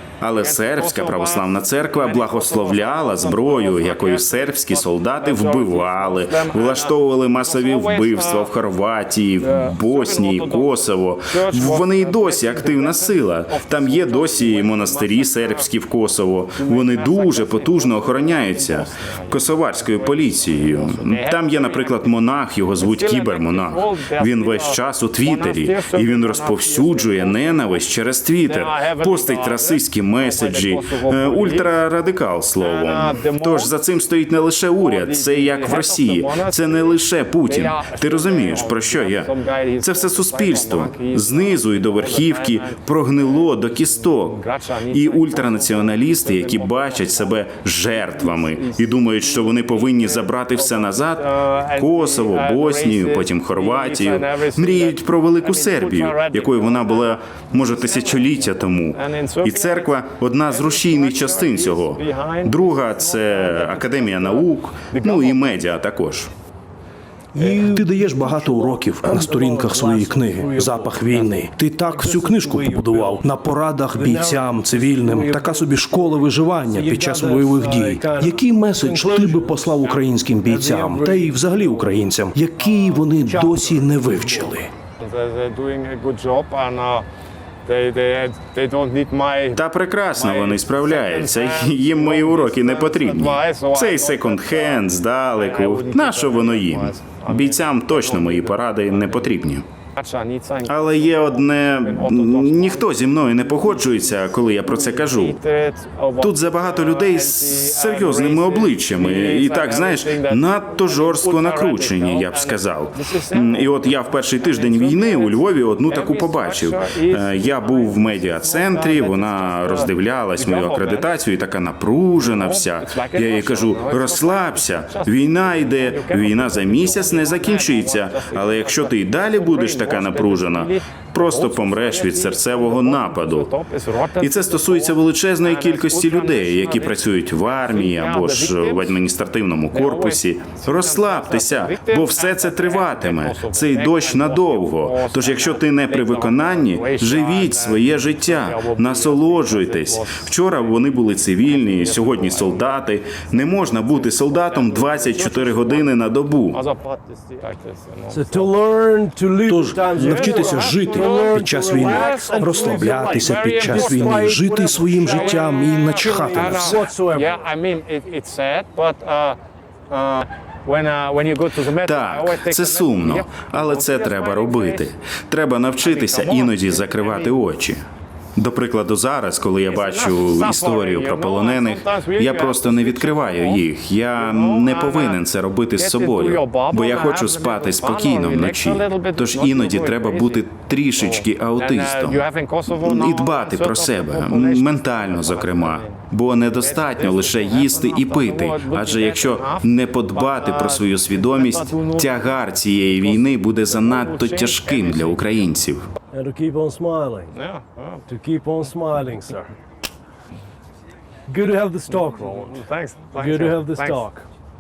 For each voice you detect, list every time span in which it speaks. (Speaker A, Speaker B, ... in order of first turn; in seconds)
Speaker A: 0.2-44.4, 44.9-66.3, 89.5-99.6, 100.7-105.4, 106.2-133.5, 134.2-156.6, 171.8-177.8, 178.4-205.9
Speaker B: 0.3-8.5, 9.4-15.7, 16.6-22.1, 22.8-27.8, 28.4-31.7, 32.6-33.7, 34.8-65.6, 85.0-87.0, 87.6-89.6, 90.2-94.8, 95.4-99.3, 99.9-121.1, 122.2-139.0, 139.7-150.7, 151.5-152.7, 153.2-155.9, 156.5-158.5, 160.0-174.9, 175.8-177.4, 179.7-183.6, 184.2-185.2, 185.8-190.5, 191.0-196.1, 196.6-202.4, 203.0-205.2, 207.3-208.0, 211.9-214.1
Speaker C: 67.3-73.2, 73.9-81.9, 82.6-84.5, 158.1-167.4, 206.1-207.3, 208.1-209.5, 211.3-212.6, 213.1-214.3
Speaker D: 67.4-84.7, 159.4-166.9